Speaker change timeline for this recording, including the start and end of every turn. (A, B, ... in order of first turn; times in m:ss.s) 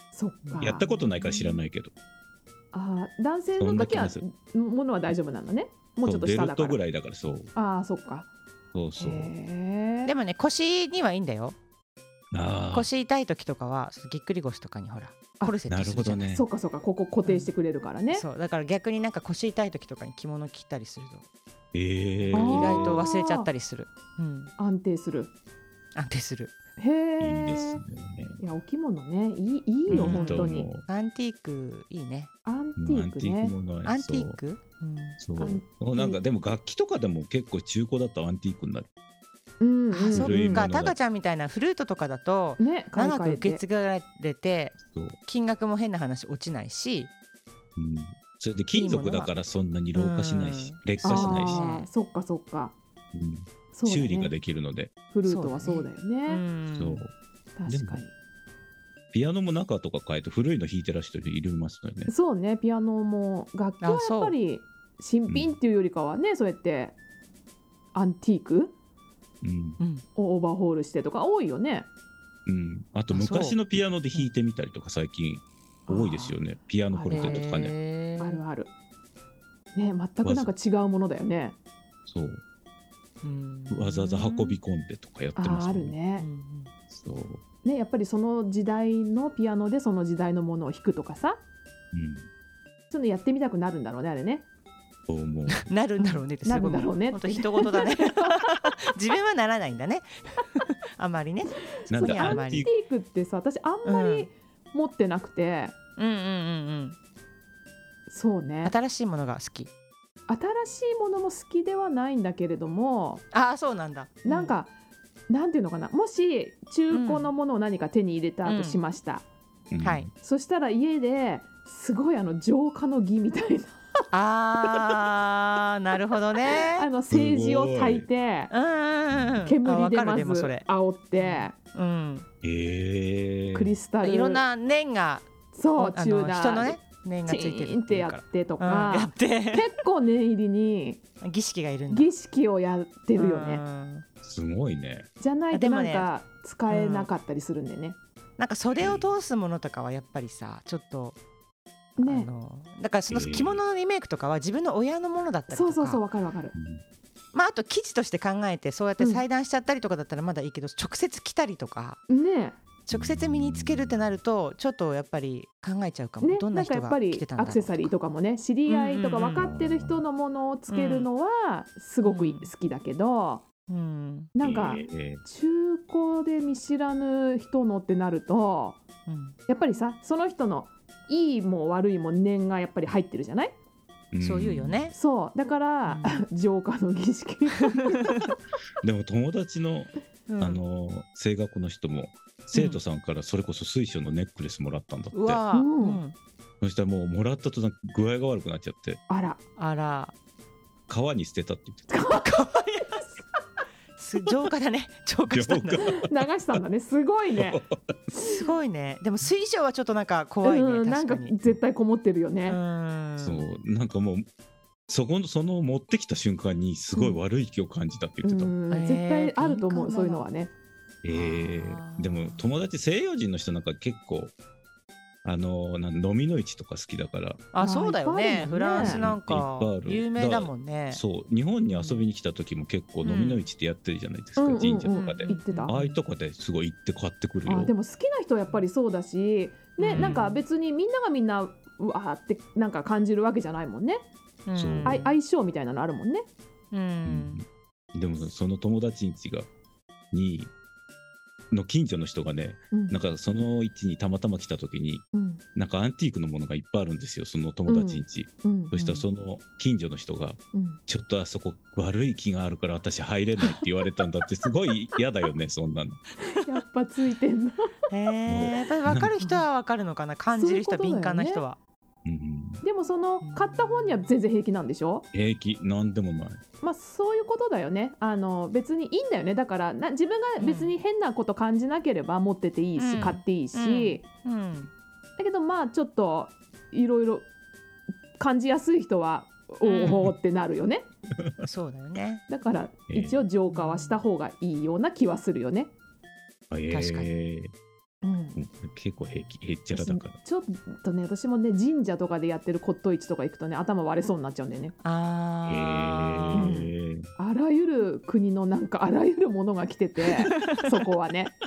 0:00.1-0:01.6 A
0:00.5-0:01.3 B
0:00.6-0:01.9 C
0:02.7-0:06.8 A
0:03.6-0:04.2 C
0:06.0-0:07.5 C
0:07.5-0:08.3 A
0:08.7-0:09.3 C
0:09.0-0:10.1 A
0:10.0-0:11.6 B
0:12.3-0:12.9 C
0:12.7-0:16.3 B
0:15.7-0:16.4 C
0:16.3-0:18.2 A
0:17.2-0:17.5 B
0:18.1-0:21.2 B
0:21.7-0:23.0 C
0:22.2-0:24.5 B
0:22.3-0:23.5 A
0:24.6-0:25.3 A
0:25.9-0:26.5 B
0:26.8-0:27.8 A
0:27.2-0:28.4 C
0:28.4-0:30.7 A
0:29.9-0:32.3 B
0:29.9-0:30.8 C
0:32.4-0:33.5 A
0:32.8-0:34.4 C
0:33.8-0:35.2 B
0:35.2-0:38.9 C
0:35.4-0:36.2 A
0:39.6-0:40.6 A
0:39.9-0:47.1 B
0:40.1-0:41.0 C
0:42.6-0:43.6 A
0:44.8-0:45.2 C
0:47.8-0:51.6 C
0:48.7-0:49.3 B
0:49.9-0:51.9 B
0:51.0-0:52.7 A
0:53.1-0:54.9 C
0:53.7-0:54.3 A
0:55.1-0:56.4 A
0:55.2-0:57.0 B
0:56.8-0:57.1 C
0:57.6-0:58.1 A
0:57.6-0:58.0 C
0:59.1-1:02.1 C
1:02.1-1:07.0 A
1:03.8-1:04.4 B
1:05.3-1:05.6 C
1:07.9-1:08.7 A
1:09.4-1:09.8 C
1:10.2-1:11.9 A
1:12.5-1:17.7 C
1:13.1-1:14.3 B
1:15.9-1:16.4 A
1:16.9-1:17.5 A
1:17.1-1:18.4 B
1:18.2-1:18.7 A
1:19.7-1:21.6 A
1:20.2-1:20.5 C
1:22.1-1:22.4 C
1:23.2-1:24.6 B
1:23.7-1:26.0 C
1:25.4-1:26.3 A
1:26.2-1:26.7 B
1:26.9-1:27.4 C
1:27.6-1:31.4 A
1:31.9-1:32.3 C
1:32.9-1:34.4 A
1:35.1-1:35.6 C
1:35.5-1:42.7 B
1:36.0-1:38.4 A
1:41.8-1:45.7 A
1:41.9-1:42.7 C
1:43.8-1:44.3 B
1:46.0-1:47.0 B
1:48.1-1:48.7 A
1:48.6-1:49.7 B
1:50.3-1:53.2 A
1:53.3-1:54.6 B
1:54.2-1:54.7 A
1:55.3-1:59.2 A
1:56.9-1:57.3 B
1:58.4-1:58.8 B
1:59.7-2:00.1 C
2:00.2-2:03.8 A
2:04.1-2:06.9 B
2:06.5-2:08.5 A
2:07.1-2:08.1 C
2:08.5-2:12.2 B
2:09.1-2:09.5 C
2:09.4-2:11.5 A
2:12.4-2:13.8 C
2:13.5-2:14.4 A
2:14.0-2:19.7 B
2:15.5-2:21.0 A
2:21.2-2:22.1 B
2:21.9-2:23.6 A
2:23.1-2:24.0 B
2:24.2-2:25.1 C
2:25.2-2:28.0 A
2:25.5-2:26.1 B
2:26.7-2:27.1 B
2:28.4-2:31.2 B
2:28.8-2:29.1 C
2:32.0-2:32.3 A
2:32.0-2:36.0 B
2:33.1-2:33.6 C
2:35.5-2:36.5 A
2:36.5-2:36.8 C
2:37.3-2:42.0 B
2:39.0-2:39.2 A
2:42.1-2:42.6 A
2:42.9-2:47.9 B
2:42.9-2:44.1 C
2:46.2-2:53.4 A
2:48.7-2:49.5 B
2:49.4-2:50.0 C
2:50.7-2:51.1 B
2:52.0-2:52.5 B
2:53.7-2:54.3 B
2:54.4-2:58.8 A
2:54.4-2:55.2 C
2:59.1-2:59.3 B
2:59.5-3:03.5 A
3:04.1-3:04.9 C
3:04.2-3:04.9 B
3:04.9-3:08.2 A
3:05.8-3:06.2 B
3:08.8-3:15.4 C
3:10.3-3:10.6 B
3:12.5-3:12.8 B
3:15.1-3:16.1 B
3:15.5-3:16.0 A
3:16.6-3:19.0 C
3:19.1-3:19.4 A
3:19.6-3:20.1 B
3:20.9-3:22.0 C
3:21.9-3:22.3 A
3:22.1-3:23.0 B
3:24.0-3:25.9 B
3:25.3-3:26.2 C
3:25.8-3:27.6 A
3:28.2-3:31.5 B
3:30.4-3:32.6 A
3:32.4-3:33.4 B
3:33.2-3:34.2 C
3:34.9-3:38.5 C
3:38.2-3:40.5 A
3:38.7-3:40.2 B
3:41.0-3:44.3 C
3:41.1-3:42.5 B
3:45.2-3:47.4 C
3:47.5-3:51.0 B
3:47.6-3:49.0 A
3:48.7-3:57.7 C
3:51.7-3:52.0 B
3:53.0-3:53.4 B
3:54.4-3:55.8 A
3:54.9-3:56.0 B
3:57.4-4:04.0 A
3:59.8-4:00.4 B
3:59.9-4:00.3 C
4:04.5-4:05.1 B
4:04.5-4:05.0 C
4:04.8-4:06.3 A
4:06.7-4:07.4 B
4:07.0-4:09.5 C
4:10.1-4:10.5 C
4:11.5-4:26.0 C
4:12.7-4:13.0 A
4:15.1-4:15.4 A
4:17.6-4:19.0 A
4:20.5-4:20.8 A
4:26.3-4:27.7 A
4:27.9-4:31.6 B
4:28.3-4:29.4 C
4:30.3-4:31.4 A
4:32.0-4:32.6 C
4:32.6-4:35.0 A
4:33.2-4:34.0 B
4:35.1-4:36.4 C
4:36.6-4:44.0 A
4:40.4-4:40.8 B
4:42.8-4:44.7 B
4:45.2-4:47.3 A
4:48.2-4:50.9 A
4:49.6-4:50.1 B
4:51.4-4:52.2 B
4:52.3-4:55.7 A
4:52.9-4:53.2 C
4:53.5-4:54.0 B
4:56.5-4:57.5 C
4:56.7-4:57.1 B
4:58.0-4:58.4 A
4:58.4-5:00.2 C
4:59.7-5:04.7 A
5:04.8-5:06.7 B
5:05.5-5:07.1 C
5:06.3-5:11.3 A
5:10.3-5:10.8 B